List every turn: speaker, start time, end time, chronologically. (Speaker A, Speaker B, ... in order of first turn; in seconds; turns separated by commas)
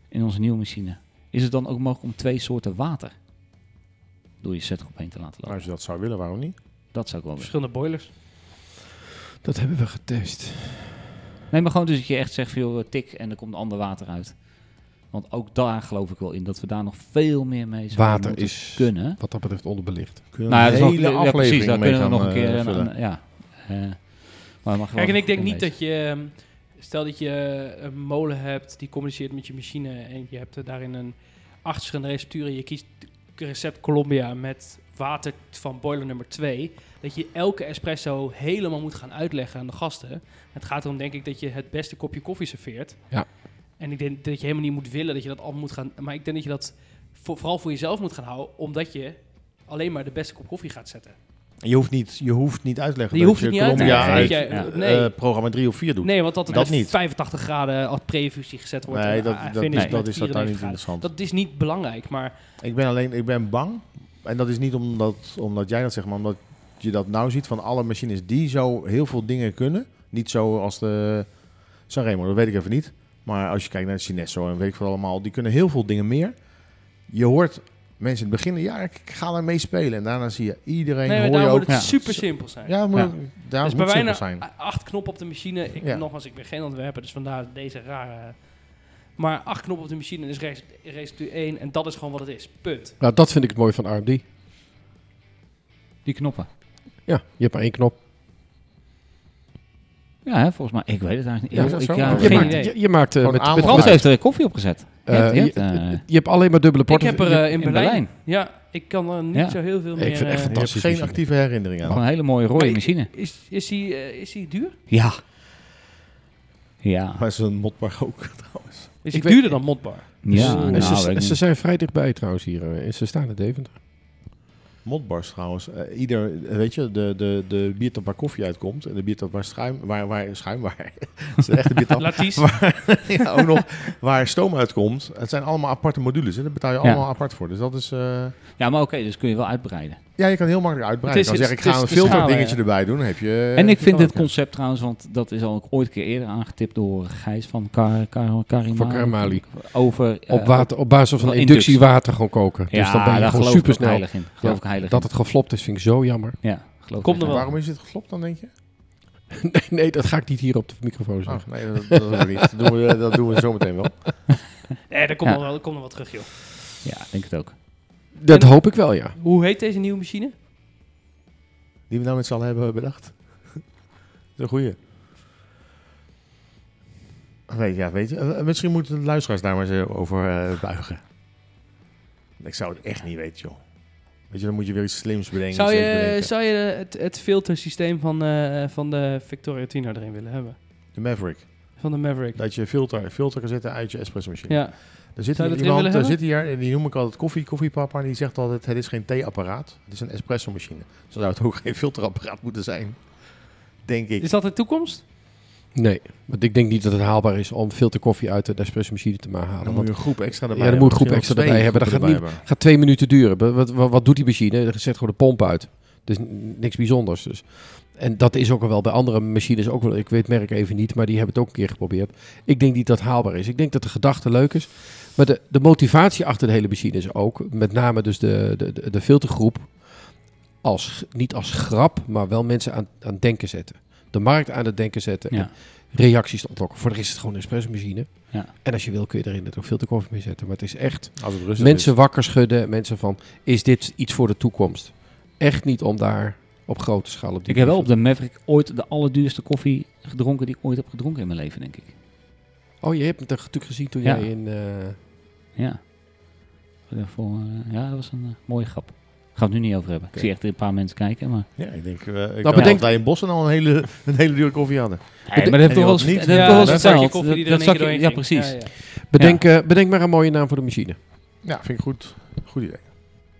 Speaker A: 0.1-3.1, Speaker A: 4.4-5.6, Speaker B: 5.5-6.6, Speaker A: 6.9-7.5, Speaker C: 7.4-8.1, Speaker D: 9.4-11.1, Speaker A: 11.5-19.2, Speaker D: 17.9-20.7, Speaker B: 20.3-22.9, Speaker A: 20.5-25.7, Speaker C: 24.9-51.1, Speaker B: 51.6-57.0, Speaker C: 53.1-55.3, Speaker A: 53.8-54.7, Speaker C: 56.0-62.4, Speaker B: 58.9-61.1, Speaker A: 59.7-60.0, Speaker B: 62.6-84.5, Speaker C: 81.0-83.0, Speaker C: 83.5-93.0, Speaker B: 85.8-86.1, Speaker D: 93.0-94.2, Speaker A: 96.0-96.5, Speaker D: 97.0-98.0, Speaker A: 100.2-102.8, Speaker D: 101.5-107.5, Speaker B: 101.5-102.5, Speaker C: 102.2-102.9, Speaker B: 103.2-104.0, Speaker A: 103.5-106.0, Speaker C: 106.9-110.6, Speaker A: 107.6-108.1, Speaker A: 109.3-109.6, Speaker D: 110.0-112.0, Speaker B: 110.5-112.0, Speaker A: 111.9-113.1, Speaker C: 112.5-114.8, Speaker A: 114.9-115.2, Speaker A: 116.8-117.2, Speaker B: 117.2-119.0, Speaker C: 119.0-120.7, Speaker D: 119.1-123.7, Speaker A: 120.2-121.4, Speaker B: 124.8-138.4, Speaker C: 132.0-133.0, Speaker A: 138.6-140.0, Speaker B: 140.2-144.3, Speaker C: 141.1-142.6, Speaker A: 143.6-155.2, Speaker D: 148.7-156.4, Speaker A: 156.4-157.4, Speaker C: 157.0-157.5, Speaker B: 157.3-158.5, Speaker D: 159.4-162.2, Speaker B: 161.3-164.1, Speaker C: 164.9-166.3, Speaker A: 166.8-167.6, Speaker D: 168.1-169.2, Speaker C: 168.3-170.3, Speaker B: 171.9-173.8, Speaker B: 174.3-174.8, Speaker B: 177.5-181.0, Speaker B: 182.4-186.3, Speaker C: 185.5-190.6, Speaker B: 190.9-204.3, Speaker C: 191.8-192.4, Speaker C: 194.5-196.2, Speaker C: 204.2-205.0, Speaker D: 205.7-247.9, Speaker B: 209.6-212.4, Speaker A: 235.3-235.5, Speaker B: 241.2-242.0, Speaker A: 247.5-251.9, Speaker D: 252.8-255.0, Speaker A: 254.0-254.3, Speaker A: 255.6-261.5, Speaker B: 261.6-267.0, Speaker D: 262.4-262.9, Speaker A: 262.6-262.8, Speaker A: 265.3-269.4, Speaker C: 266.2-268.8, Speaker D: 269.0-271.0, Speaker B: 271.4-272.9